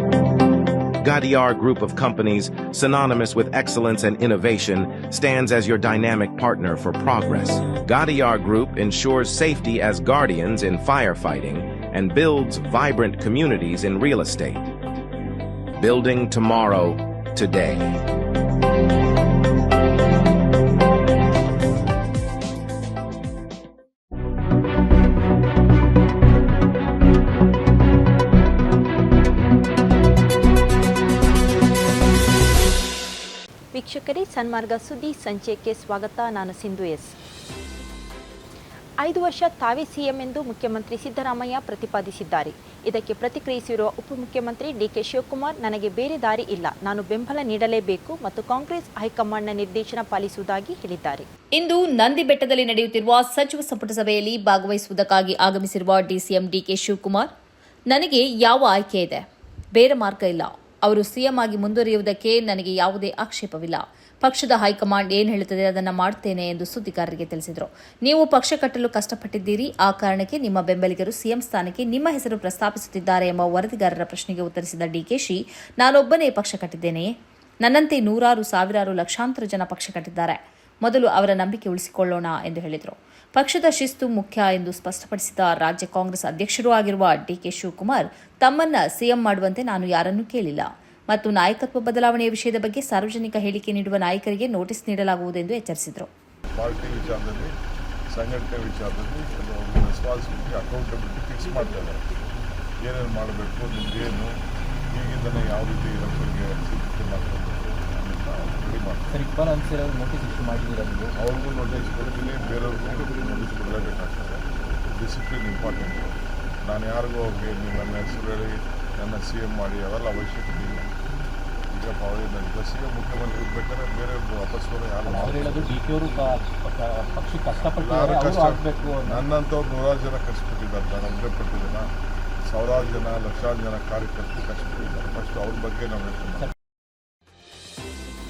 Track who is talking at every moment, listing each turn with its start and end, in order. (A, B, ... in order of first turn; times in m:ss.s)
0:01.0-0:14.6 A
0:15.8-0:17.9 A
0:33.7-0:37.1 B
0:39.0-0:51.3 B
0:51.6-0:57.3 C
0:57.9-0:59.2 C
0:59.7-1:17.1 C
1:17.6-1:36.1 C
1:36.6-1:37.5 D
1:38.1-1:42.0 D
1:42.8-1:44.3 D
1:44.9-1:49.0 D
1:49.1-1:51.2 E
1:51.2-2:00.9 D
2:01.7-2:05.7 D
2:05.1-2:09.2 E
2:07.7-2:11.8 D
2:12.5-2:16.5 D